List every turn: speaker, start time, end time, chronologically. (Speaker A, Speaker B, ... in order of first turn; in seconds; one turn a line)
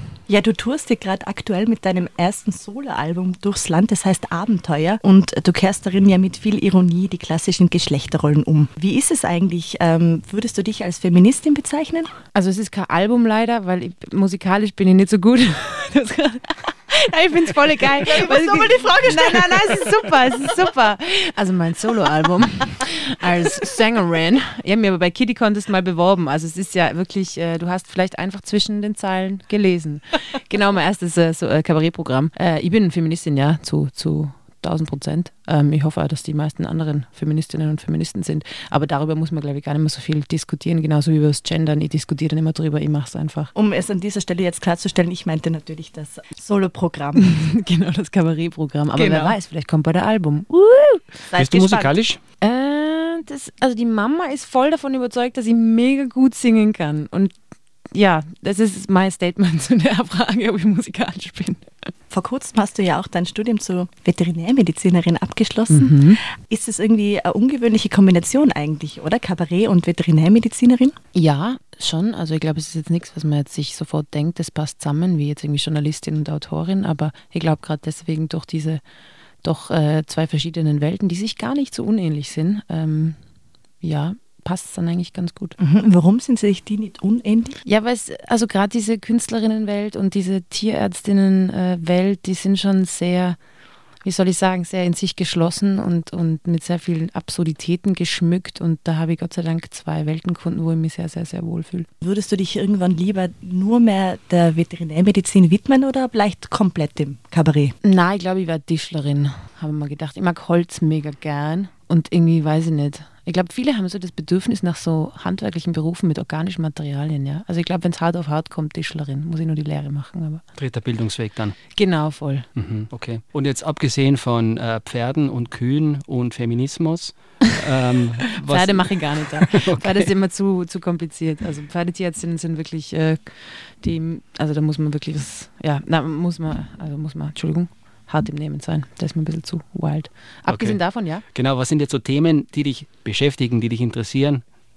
Speaker A: 0.3-12.1
Speaker B: 12.3-43.5
Speaker A: 18.0-19.9
Speaker A: 43.5-47.4
Speaker B: 47.1-51.3
Speaker A: 48.9-49.4
Speaker A: 51.3-51.9
Speaker C: 51.4-52.2
Speaker B: 52.4-57.3
Speaker B: 57.9-61.7
Speaker A: 62.1-71.0
Speaker B: 65.7-66.2
Speaker B: 71.1-78.8
Speaker B: 79.4-83.2
Speaker B: 83.8-85.5
Speaker A: 85.6-87.6
Speaker B: 87.6-93.4
Speaker B: 94.0-101.9
Speaker A: 102.0-107.7
Speaker B: 107.8-120.4
Speaker C: 120.6-121.6
Speaker B: 121.8-122.5
Speaker C: 122.5-130.1
Speaker B: 128.4-141.2
Speaker C: 140.5-140.8
Speaker C: 141.3-144.4